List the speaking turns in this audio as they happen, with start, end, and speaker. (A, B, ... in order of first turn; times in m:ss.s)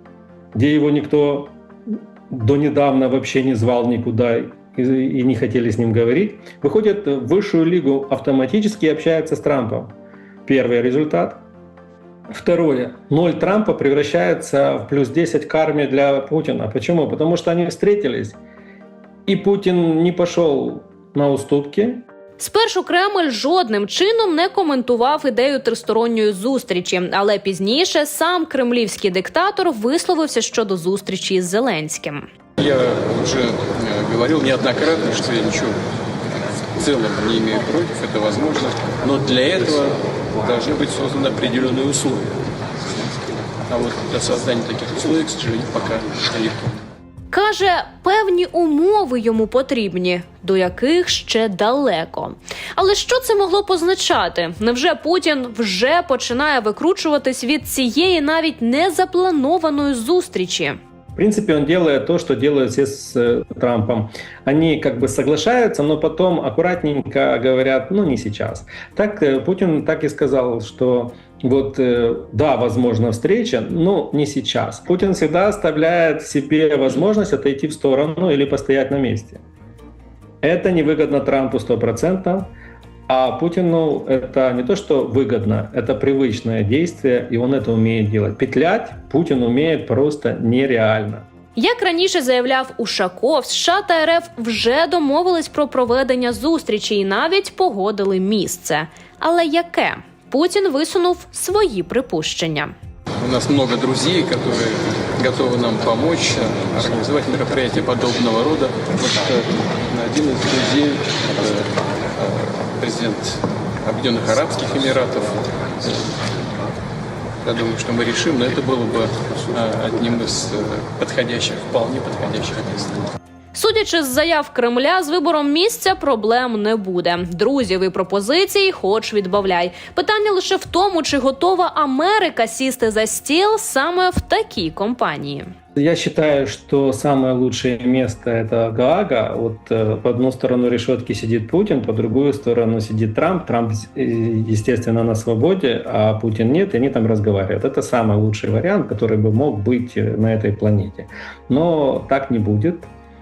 0:00.5-0:01.5 A
0:02.3-0:09.9 A
0:10.4-0:11.4 A
0:12.3-0:18.4 A
0:19.3-0:22.0 A
0:22.4-0:32.2 B
0:32.6-0:35.8 C
0:36.8-0:42.2 C
0:43.7-0:46.8 C
0:47.3-1:00.8 B
1:01.2-1:19.4 A
1:20.4-1:22.5 A
1:23.1-1:31.3 A
1:31.6-1:42.7 B
1:43.2-1:56.1 C
1:57.4-2:03.0 C
2:03.5-2:15.5 B
2:15.8-2:32.9 A